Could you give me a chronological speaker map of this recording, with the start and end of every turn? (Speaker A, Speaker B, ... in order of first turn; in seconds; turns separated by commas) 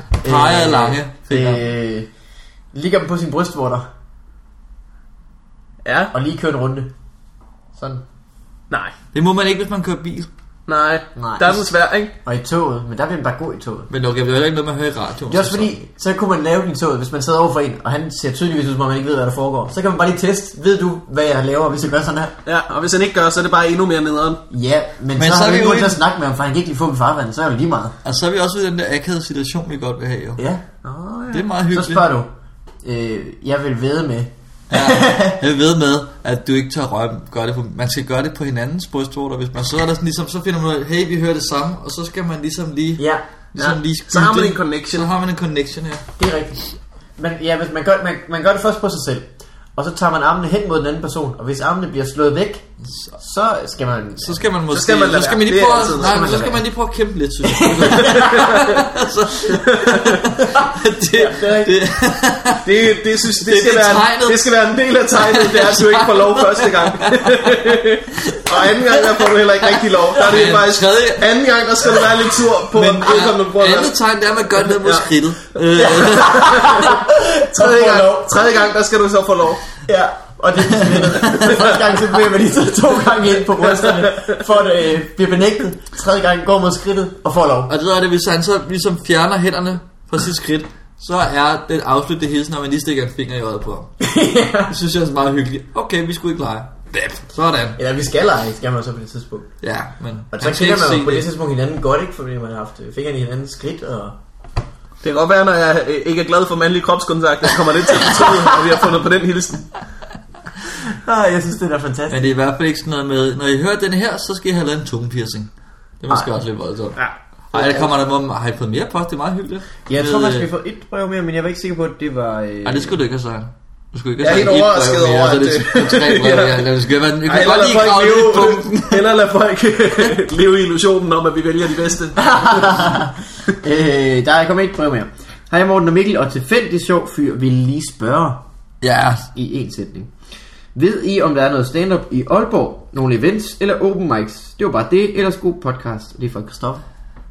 Speaker A: 0.2-1.6, Speaker B: 0.2-2.1, Speaker B: 2.7-3.9, Speaker C: 5.8-6.1, Speaker B: 6.1-6.9, Speaker B: 7.8-8.0, Speaker A: 9.1-10.3, Speaker C: 10.7-12.1, Speaker B: 11.2-11.7, Speaker B: 12.2-13.9, Speaker A: 13.9-15.8, Speaker B: 15.3-22.4, Speaker C: 22.5-24.4, Speaker B: 24.5-27.9, Speaker A: 25.2-26.0, Speaker A: 28.0-30.4, Speaker B: 30.4-32.3, Speaker A: 31.3-32.1, Speaker B: 32.8-35.4, Speaker A: 34.7-46.1, Speaker B: 43.0-43.7, Speaker C: 43.6-45.1, Speaker B: 46.2-46.6, Speaker B: 47.2-52.7, Speaker B: 53.2-54.5, Speaker A: 54.2-64.5, Speaker C: 54.7-56.2, Speaker B: 55.9-56.6, Speaker B: 57.5-58.9, Speaker C: 57.9-58.6, Speaker C: 59.6-60.2, Speaker B: 60.0-61.8, Speaker C: 62.6-74.0, Speaker A: 65.1-71.3, Speaker A: 72.7-76.9, Speaker C: 74.6-75.1, Speaker B: 75.8-78.6, Speaker C: 75.9-79.6, Speaker B: 79.9-87.7, Speaker A: 80.9-81.6, Speaker C: 81.4-81.8, Speaker C: 83.6-84.4, Speaker A: 87.7-93.9, Speaker B: 94.0-94.8, Speaker A: 94.7-97.8, Speaker B: 97.8-99.5, Speaker A: 99.6-101.3, Speaker B: 100.3-104.2, Speaker C: 105.0-109.7, Speaker B: 108.2-108.5, Speaker B: 110.7-112.3, Speaker A: 112.1-115.5, Speaker A: 116.0-117.0, Speaker C: 117.0-117.9, Speaker A: 117.5-120.5, Speaker B: 119.9-123.0, Speaker A: 122.7-129.1, Speaker C: 124.2-126.7, Speaker C: 127.2-132.9, Speaker B: 132.2-138.4, Speaker A: 138.8-139.3, Speaker B: 139.3-140.1, Speaker B: 140.8-146.8